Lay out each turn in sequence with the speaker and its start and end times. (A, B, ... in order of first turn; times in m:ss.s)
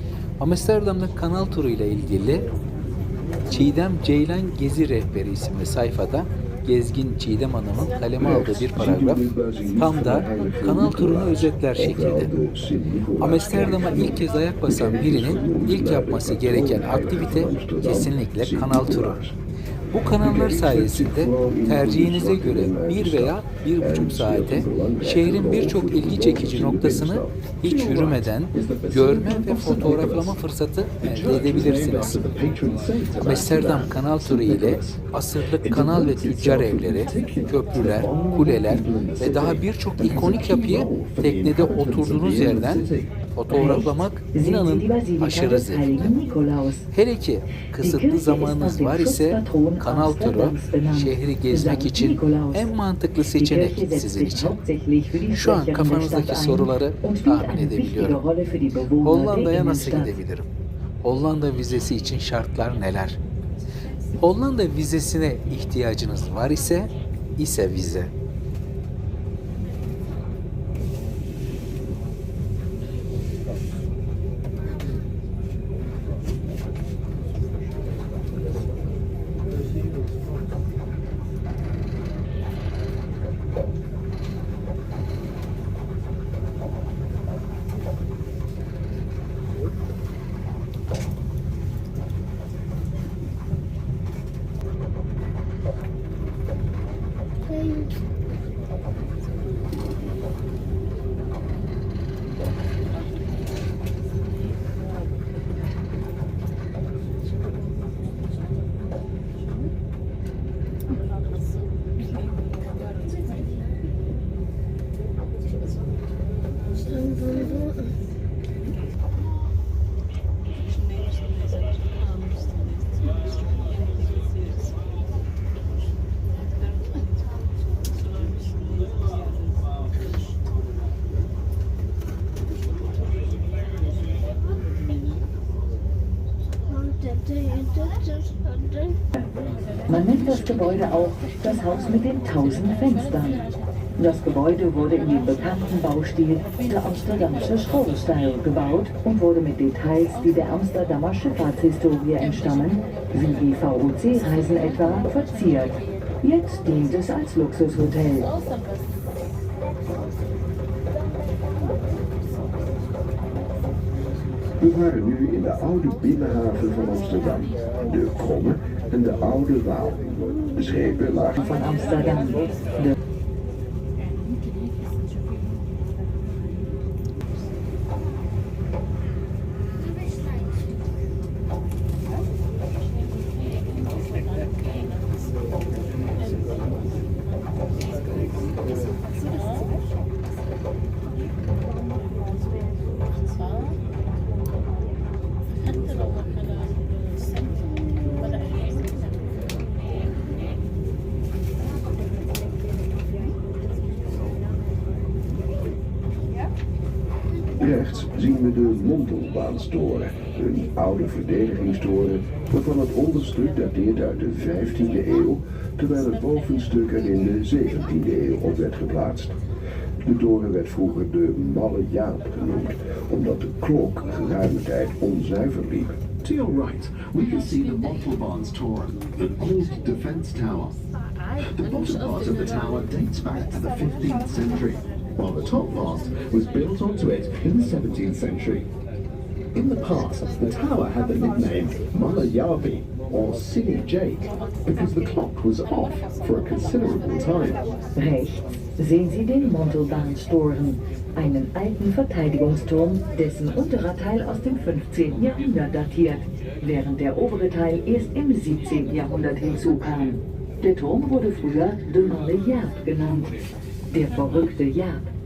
0:00.4-0:02.4 A
0:03.5-0:12.3 A
0:08.2-0:19.3 B
0:13.2-0:19.2 A
0:19.9-0:32.2 A
0:20.1-0:27.4 B
0:27.6-0:30.4 C
0:31.0-0:43.1 C
0:33.2-0:46.1 A
0:43.5-0:46.8 D
0:46.9-0:54.6 A
0:47.8-0:52.7 D
0:53.2-1:00.2 D
0:55.3-0:58.2 A
0:59.0-1:00.5 A
1:01.0-1:03.2 A
1:04.2-1:08.1 A
2:19.9-2:38.3 D
2:44.6-2:51.6 B
2:51.4-2:52.9 D
3:27.6-3:39.4 B
3:40.0-3:45.9 B
3:46.2-3:50.8 C
3:51.4-3:58.7 C
3:59.5-4:07.6 C
4:08.0-4:23.4 D
4:23.9-4:25.0 D